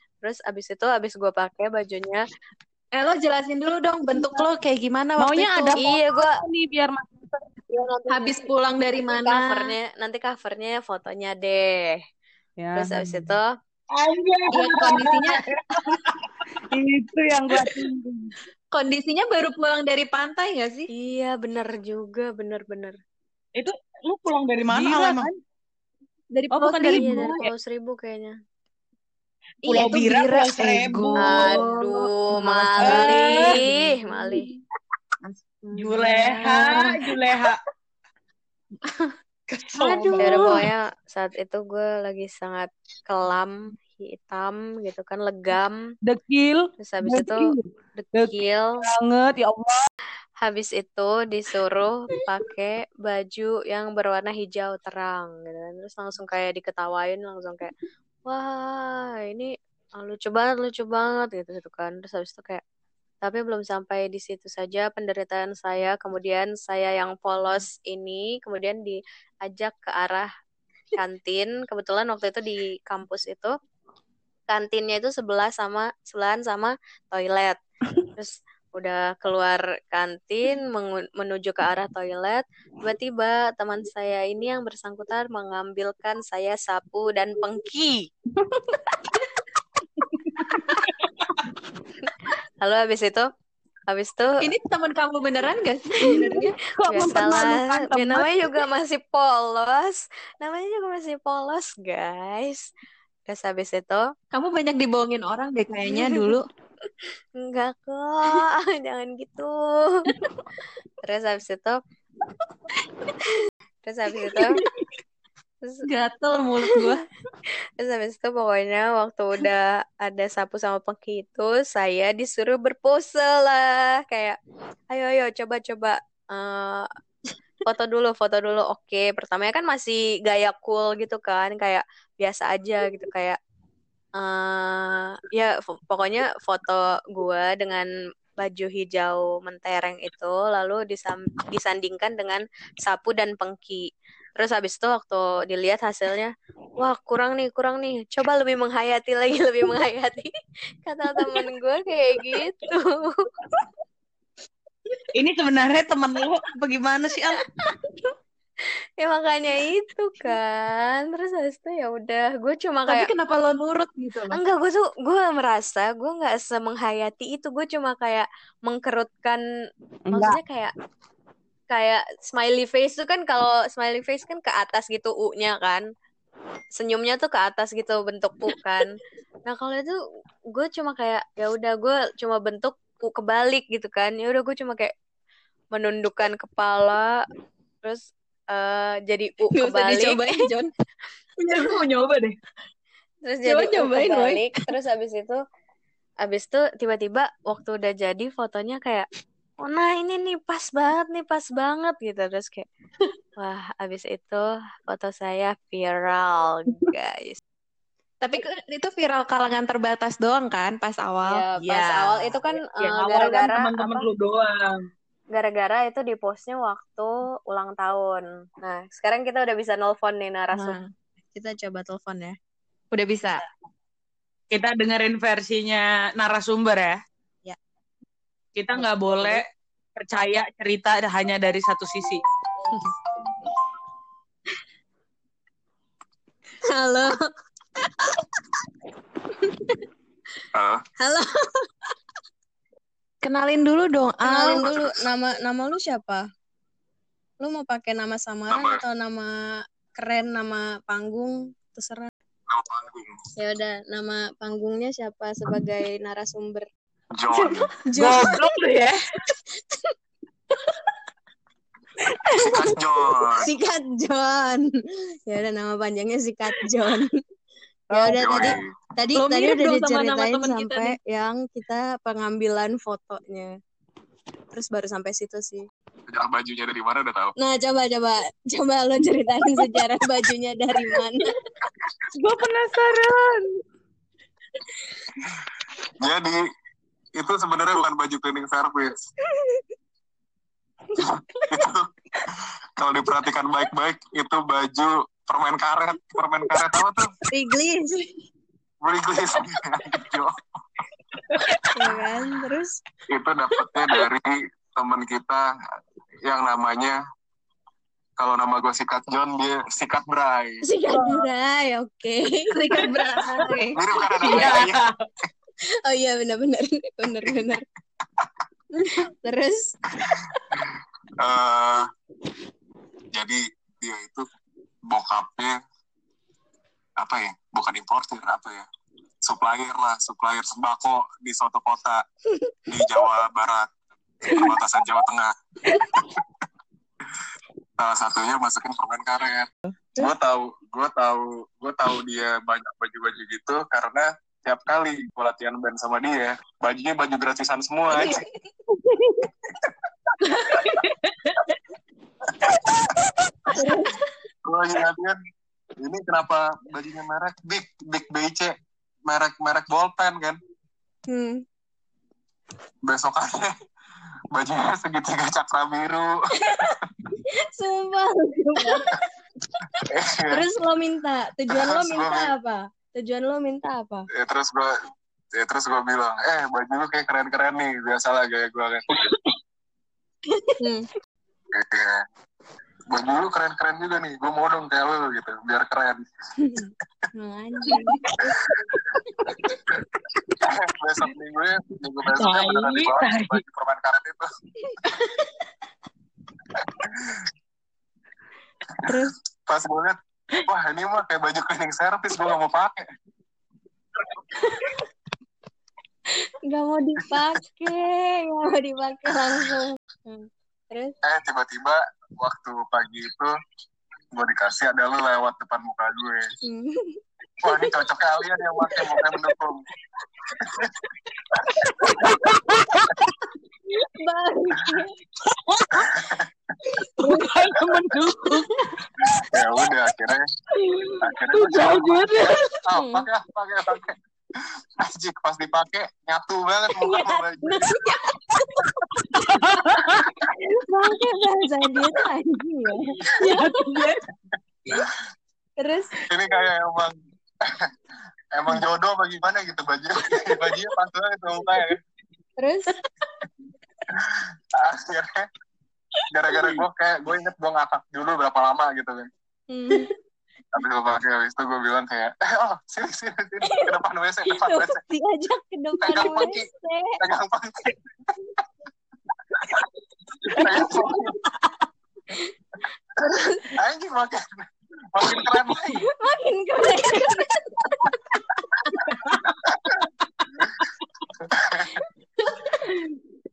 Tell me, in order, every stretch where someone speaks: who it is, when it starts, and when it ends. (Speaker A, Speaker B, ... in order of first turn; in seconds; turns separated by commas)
Speaker A: 0.2-2.2, Speaker B: 3.0-5.8, Speaker C: 5.2-7.5, Speaker A: 5.8-6.4, Speaker A: 7.7-8.4, Speaker B: 8.1-9.8, Speaker A: 9.2-12.0, Speaker C: 12.6-13.3, Speaker A: 12.8-13.5, Speaker D: 13.9-16.2, Speaker B: 14.5-15.5, Speaker C: 16.7-18.3, Speaker B: 18.7-20.9, Speaker A: 20.9-23.0, Speaker D: 23.6-25.3, Speaker C: 24.7-25.4, Speaker B: 26.3-27.4, Speaker C: 26.5-27.5, Speaker A: 26.9-28.4, Speaker B: 29.6-34.6, Speaker D: 29.7-31.6, Speaker A: 31.2-34.5, Speaker D: 32.8-33.6, Speaker B: 35.2-37.2, Speaker D: 35.7-37.6, Speaker B: 38.9-39.1, Speaker D: 39.5-40.5, Speaker B: 39.8-40.6, Speaker C: 39.9-40.2, Speaker A: 40.2-45.8, Speaker C: 46.1-47.6, Speaker A: 46.8-48.8, Speaker C: 48.1-49.9, Speaker A: 50.4-57.7, Speaker A: 58.3-62.6, Speaker A: 63.2-70.3, Speaker A: 71.0-73.5, Speaker A: 74.5-77.6, Speaker A: 78.2-88.1, Speaker A: 92.6-93.3, Speaker A: 93.9-94.4, Speaker B: 94.4-96.5, Speaker A: 96.2-102.7, Speaker C: 96.8-98.4, Speaker A: 103.3-104.1, Speaker B: 104.3-106.5, Speaker A: 105.9-106.3, Speaker A: 107.4-110.0, Speaker A: 111.0-111.8, Speaker A: 113.8-114.6, Speaker B: 114.2-114.6, Speaker B: 115.8-117.0, Speaker A: 117.8-124.4, Speaker A: 124.9-126.8, Speaker A: 127.6-133.4, Speaker A: 134.2-150.3, Speaker A: 150.9-153.2, Speaker D: 155.2-157.3, Speaker A: 159.0-163.1, Speaker B: 162.9-164.4, Speaker A: 164.3-169.4, Speaker C: 170.1-170.4, Speaker A: 170.1-170.7, Speaker A: 171.7-175.8, Speaker A: 176.8-178.9, Speaker A: 179.5-180.0, Speaker A: 180.5-184.9, Speaker A: 185.7-187.1, Speaker A: 187.8-190.2, Speaker B: 189.5-190.7, Speaker D: 191.4-192.4, Speaker A: 193.2-195.4, Speaker B: 193.4-194.7, Speaker A: 196.2-199.1, Speaker A: 199.6-202.7, Speaker A: 203.4-207.4, Speaker B: 208.2-211.5, Speaker A: 211.2-214.1, Speaker D: 211.6-214.8, Speaker A: 215.3-220.8, Speaker B: 220.5-220.9, Speaker A: 221.3-222.4, Speaker B: 222.9-223.4, Speaker D: 224.5-227.0, Speaker D: 228.6-229.4, Speaker D: 230.0-232.2, Speaker A: 236.7-237.2, Speaker E: 240.6-240.8, Speaker A: 241.0-241.4, Speaker B: 243.2-244.8, Speaker A: 244.2-246.3, Speaker A: 247.4-252.1, Speaker E: 248.5-248.8, Speaker E: 252.5-253.2, Speaker A: 253.4-256.7, Speaker E: 257.2-257.7, Speaker D: 257.9-258.9, Speaker B: 258.0-258.3, Speaker A: 258.0-258.4, Speaker E: 262.4-263.5, Speaker A: 263.4-264.7, Speaker A: 265.3-267.1, Speaker A: 267.9-273.6, Speaker B: 268.0-268.6, Speaker E: 268.1-268.7, Speaker B: 269.1-271.0, Speaker A: 274.5-275.6, Speaker E: 276.1-277.3, Speaker A: 277.4-281.3, Speaker C: 282.1-283.6, Speaker E: 286.0-286.4, Speaker E: 287.1-289.0, Speaker E: 291.0-291.9, Speaker E: 292.8-297.1, Speaker A: 297.3-298.1, Speaker E: 298.8-300.3, Speaker A: 301.7-302.8, Speaker E: 303.1-305.5, Speaker E: 306.2-307.0, Speaker E: 308.2-310.6, Speaker A: 310.6-313.7, Speaker D: 311.0-311.2, Speaker B: 312.5-313.8, Speaker E: 313.7-314.8, Speaker A: 314.2-314.6, Speaker D: 314.3-315.0, Speaker A: 315.9-317.6, Speaker A: 319.2-319.7, Speaker E: 320.1-321.9, Speaker E: 323.1-324.3, Speaker E: 324.9-325.6, Speaker E: 327.0-328.7, Speaker E: 329.2-332.0, Speaker E: 332.7-333.7, Speaker E: 334.2-336.2, Speaker E: 337.8-348.2, Speaker B: 347.9-348.2, Speaker B: 350.3-350.6, Speaker D: 350.7-351.4, Speaker E: 352.4-352.8, Speaker B: 353.6-354.1, Speaker E: 354.5-355.2, Speaker E: 355.8-358.5, Speaker E: 359.1-360.4, Speaker A: 361.1-361.4, Speaker E: 362.9-363.6, Speaker E: 364.3-366.8, Speaker A: 367.6-368.9, Speaker E: 369.8-370.4, Speaker A: 370.3-374.1, Speaker E: 371.5-372.3, Speaker E: 374.1-374.7, Speaker E: 375.4-378.8, Speaker A: 380.6-380.9, Speaker E: 381.5-382.1, Speaker E: 382.9-386.0, Speaker A: 386.5-387.9, Speaker B: 387.6-388.0, Speaker E: 390.4-394.3, Speaker D: 392.1-393.4, Speaker B: 394.9-395.2, Speaker E: 396.8-397.2, Speaker E: 399.1-402.8, Speaker A: 406.5-410.9, Speaker E: 411.0-413.3, Speaker E: 414.1-416.2, Speaker A: 416.5-417.0, Speaker E: 417.4-419.6, Speaker E: 420.4-420.7, Speaker D: 421.8-422.8, Speaker A: 424.0-424.9, Speaker D: 425.3-425.9, Speaker E: 425.8-426.3, Speaker D: 427.0-428.5, Speaker E: 429.2-430.2, Speaker D: 430.6-432.5, Speaker E: 431.0-432.1, Speaker E: 432.6-434.0, Speaker A: 432.7-433.1, Speaker E: 434.8-437.7, Speaker A: 436.9-437.9, Speaker D: 439.1-440.1, Speaker A: 440.4-443.4, Speaker D: 443.2-444.0, Speaker A: 445.6-445.9, Speaker E: 446.1-446.9, Speaker E: 448.3-451.8, Speaker A: 452.4-452.7, Speaker E: 453.9-455.3, Speaker E: 456.1-459.1, Speaker A: 459.5-459.9, Speaker E: 460.5-464.8, Speaker A: 464.4-467.0, Speaker E: 465.8-466.5, Speaker E: 467.0-467.8, Speaker E: 470.3-471.2, Speaker A: 473.0-473.5, Speaker E: 473.4-475.9, Speaker A: 476.0-477.9, Speaker E: 481.3-481.7